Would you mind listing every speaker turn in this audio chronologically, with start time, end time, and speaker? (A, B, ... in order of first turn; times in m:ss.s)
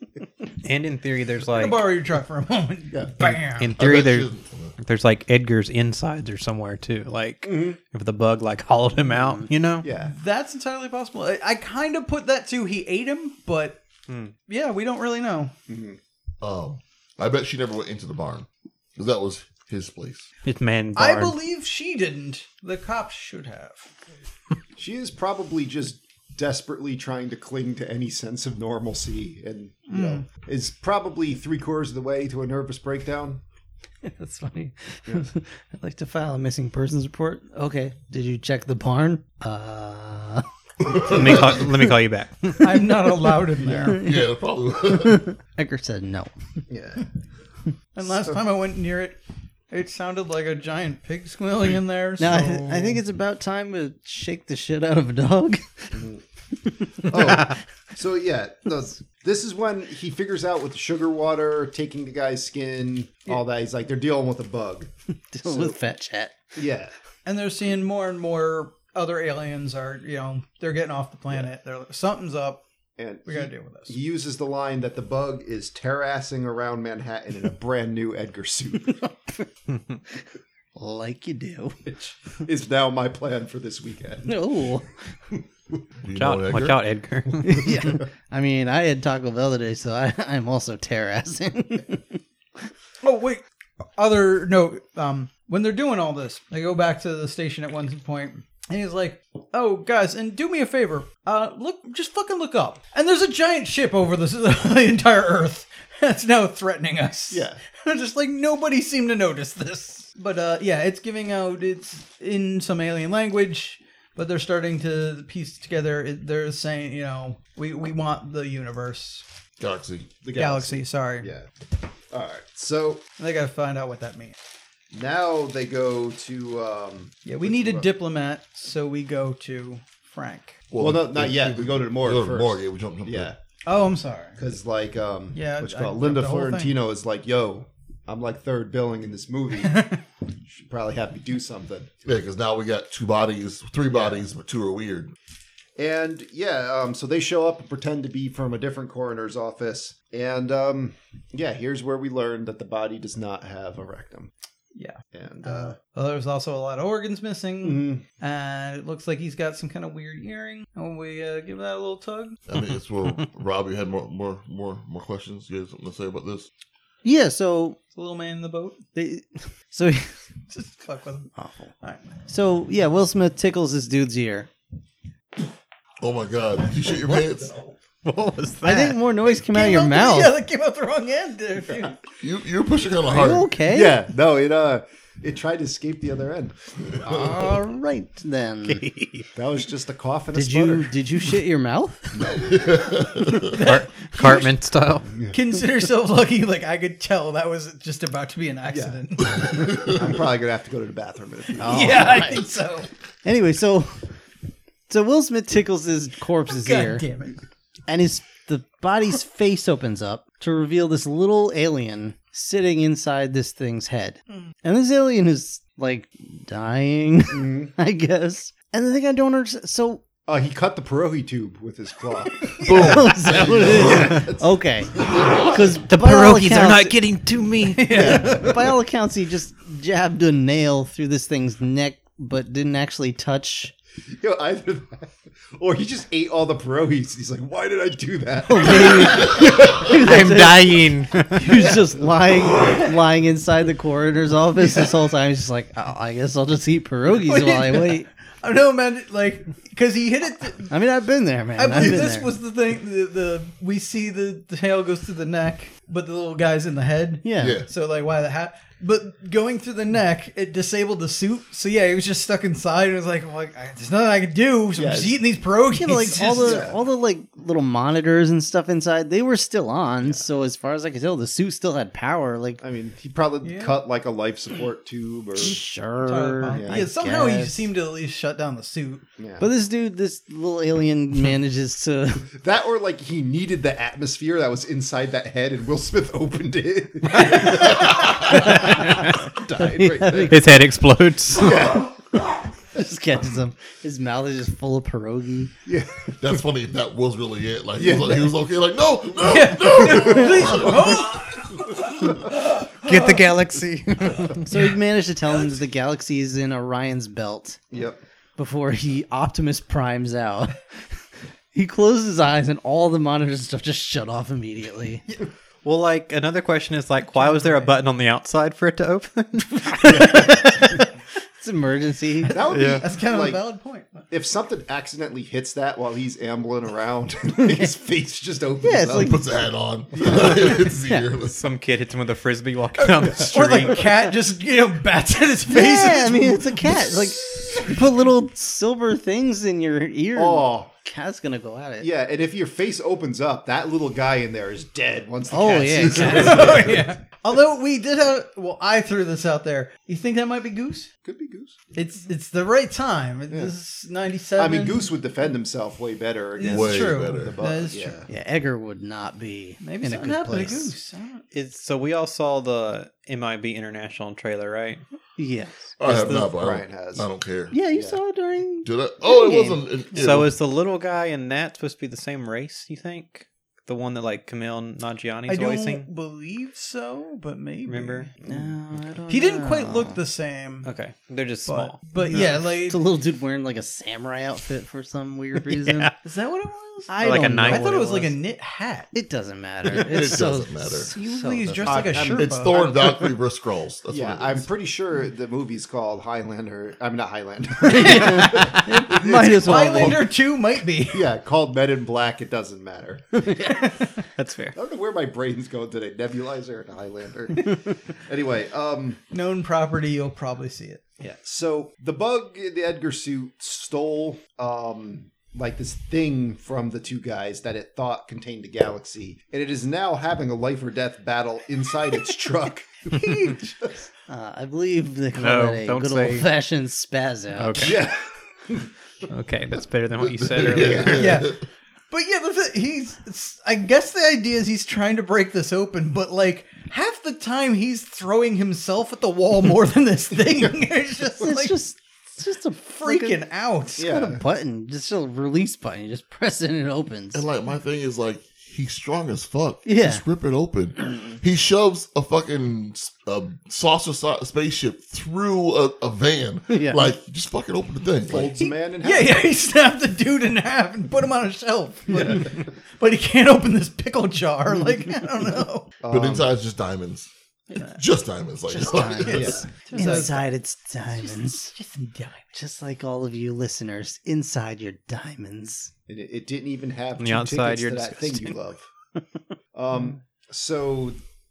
0:00.6-0:01.9 A
0:01.5-0:03.7 B
0:02.9-0:03.4 C
0:03.4-0:09.9 A
0:03.8-0:04.8 D
0:07.4-0:07.8 C
0:09.1-0:09.5 E
0:09.8-0:10.1 C
0:10.0-0:13.8 B
0:14.1-0:14.3 A
0:14.5-0:15.5 B
0:15.7-0:16.0 C
0:16.4-0:20.3 D
0:20.4-0:21.4 A
0:21.0-0:23.9 B
0:24.8-0:33.4 C
0:29.9-0:30.3 B
0:34.0-0:41.7 E
0:40.8-0:41.3 D
0:41.0-0:42.5 A
0:42.5-0:44.2 E
0:42.6-0:44.0 B
0:43.6-0:44.0 C
0:44.0-0:45.3 D
0:44.9-0:46.3 E
0:46.7-0:47.1 C
0:48.0-0:49.2 B
0:48.0-0:48.4 C
0:49.7-0:53.0 B
0:52.2-0:57.6 E
0:55.9-0:56.2 C
0:57.1-1:04.9 C
1:05.3-1:06.5 E
1:05.4-1:05.8 C
1:06.6-1:06.9 C
1:07.3-1:12.6 B
1:13.0-1:19.1 C
1:13.3-1:14.0 B
1:19.0-1:19.3 E
1:20.8-1:21.9 E
1:21.9-1:24.4 C
1:24.2-1:24.9 E
1:26.0-1:26.8 D
1:26.2-1:28.0 A
1:27.4-1:32.2 E
1:33.0-1:33.4 B
1:34.0-1:59.2 B
1:47.3-1:47.6 C
1:59.6-2:00.1 D
2:00.2-2:01.5 C
2:00.4-2:01.3 B
2:02.1-2:03.0 C
2:03.2-2:04.4 B
2:04.9-2:07.9 C
2:07.2-2:10.7 B
2:10.7-2:13.3 D
2:10.8-2:13.4 C
2:13.6-2:14.4 B
2:14.4-2:19.9 C
2:15.3-2:16.8 B
2:19.6-2:20.0 B
2:20.5-2:21.9 C
2:22.0-2:25.1 D
2:23.9-2:24.3 C
2:25.8-2:34.3 C
2:34.8-2:42.4 B
2:35.1-2:35.8 C
2:37.6-2:38.0 C
2:42.5-2:46.5 D
2:47.0-2:47.8 E
2:47.9-2:48.8 B
2:49.0-2:50.2 E
2:50.5-2:52.2 B
2:51.4-2:51.7 E
2:52.2-2:54.5 E
2:56.0-2:57.6 D
2:58.0-2:59.0 A
2:58.6-3:00.4 E
2:59.3-3:02.0 B
3:02.2-3:03.5 D
3:03.1-3:04.0 E
3:03.6-3:07.6 C
3:07.0-3:08.8 E
3:08.6-3:09.3 A
3:09.3-3:11.0 C
3:10.3-3:12.4 E
3:12.3-3:13.6 D
3:13.5-3:14.5 B
3:13.5-3:15.1 A
3:15.1-3:15.4 C
3:15.3-3:20.2 B
3:18.7-3:19.0 C
3:19.5-3:19.9 D
3:19.8-3:22.4 C
3:21.6-3:22.9 B
3:21.6-3:22.4 E
3:23.2-3:24.1 E
3:24.9-3:27.1 E
3:26.5-3:27.4 B
3:27.9-3:40.0 E
3:37.3-3:37.7 C
3:40.3-3:42.6 C
3:42.4-3:43.2 B
3:42.6-3:44.2 D
3:42.7-3:47.0 E
3:43.3-3:45.5 C
3:45.0-3:45.6 D
3:45.8-3:48.2 A
3:47.8-3:48.7 B
3:47.9-3:53.7 E
3:47.9-3:48.6 C
3:54.2-4:00.2 C
3:58.4-4:08.1 E
3:59.7-4:01.5 A
4:01.6-4:02.0 C
4:07.2-4:10.8 B
4:10.7-4:12.3 E
4:11.6-4:26.7 B
4:17.2-4:17.6 E
4:17.4-4:17.7 D
4:24.8-4:25.2 C
4:25.7-4:32.6 E
4:26.4-4:26.8 C
4:32.6-4:35.6 C
4:33.4-4:33.8 B
4:35.4-4:37.7 E
4:36.0-4:39.0 B
4:36.5-4:36.9 C
4:39.2-4:39.5 C
4:39.4-4:42.3 E
4:42.4-4:50.6 C
4:47.4-4:48.0 B
4:47.8-4:48.2 D
4:48.3-4:50.4 E
4:48.4-4:49.2 A
4:50.1-4:51.7 A
4:51.4-4:51.9 C
4:51.5-4:51.8 E
4:52.7-4:55.5 E
4:55.7-4:56.4 C
4:56.2-5:01.2 D
4:57.8-4:58.3 C
4:59.2-5:03.2 B
5:00.0-5:00.8 C
5:02.3-5:04.5 A
5:04.4-5:07.6 E
5:07.7-5:08.0 C
5:08.4-5:10.8 E
5:11.5-5:15.0 E
5:15.6-5:20.8 A
5:17.1-5:17.7 B
5:19.9-5:20.8 C
5:19.9-5:20.9 E
5:21.4-5:22.4 E
5:22.3-5:24.1 B
5:22.3-5:23.4 C
5:22.5-5:22.8 A
5:24.1-5:29.2 C
5:28.6-5:29.2 E
5:28.9-5:31.4 D
5:29.9-5:30.6 C
5:30.8-5:31.1 E
5:31.2-5:33.9 A
5:32.8-5:33.9 C
5:33.2-5:37.0 B
5:35.5-5:41.9 E
5:40.2-5:40.7 C
5:41.8-5:46.9 C
5:45.3-5:46.7 E
5:45.8-5:50.9 B
5:51.0-5:51.7 C
5:51.7-5:54.9 B
5:54.4-5:58.1 C
5:56.4-5:58.0 B
5:56.4-5:57.4 D
5:58.1-6:00.7 E
5:59.6-6:01.2 B
6:01.3-6:04.8 A
6:05.2-6:05.7 E
6:05.8-6:07.6 D
6:05.8-6:06.3 A
6:06.1-6:07.1 C
6:07.5-6:09.6 E
6:07.7-6:08.0 C
6:08.6-6:10.3 D
6:09.9-6:15.9 A
6:15.3-6:18.1 B
6:17.7-6:18.1 A
6:18.2-6:18.5 C
6:18.2-6:20.0 E
6:19.1-6:20.7 B
6:20.6-6:22.3 A
6:21.5-6:22.8 B
6:22.0-6:25.9 E
6:25.4-6:26.0 A
6:26.0-6:28.9 B
6:26.9-6:28.2 E
6:27.0-6:27.8 A
6:28.9-6:31.9 E
6:29.7-6:30.9 D
6:30.9-6:33.0 B
6:31.6-6:32.8 C
6:31.9-6:34.5 D
6:33.9-6:40.0 C
6:37.6-6:40.1 E
6:37.7-6:41.1 B
6:40.9-6:43.7 C
6:43.2-6:43.5 E
6:43.5-6:44.0 B
6:44.2-6:44.6 A
6:44.5-6:49.0 C
6:49.1-6:50.8 B
6:51.0-7:03.8 C
7:02.9-7:03.4 B
7:04.1-7:07.8 E
7:05.2-7:06.3 A
7:07.4-7:07.8 A
7:07.6-7:08.7 C
7:09.1-7:11.0 A
7:10.0-7:11.4 D
7:10.5-7:11.1 C
7:10.8-7:11.4 B
7:11.9-7:21.6 B
7:21.2-7:23.2 E
7:22.8-7:24.1 B
7:23.8-7:24.2 C
7:23.9-7:27.2 E
7:27.1-7:38.4 D
7:29.7-7:30.0 E
7:30.8-7:31.2 C
7:36.5-7:36.8 E
7:38.1-7:39.2 C
7:38.4-7:45.7 B
7:41.9-7:42.5 C
7:45.8-7:46.3 C
7:45.9-7:49.5 D
7:48.5-7:51.5 E
7:48.8-7:50.3 B
7:49.1-7:50.0 C
7:50.9-7:52.3 B
7:52.4-7:55.7 E
7:55.9-7:58.7 C
7:57.0-7:58.4 A
7:59.5-8:01.0 C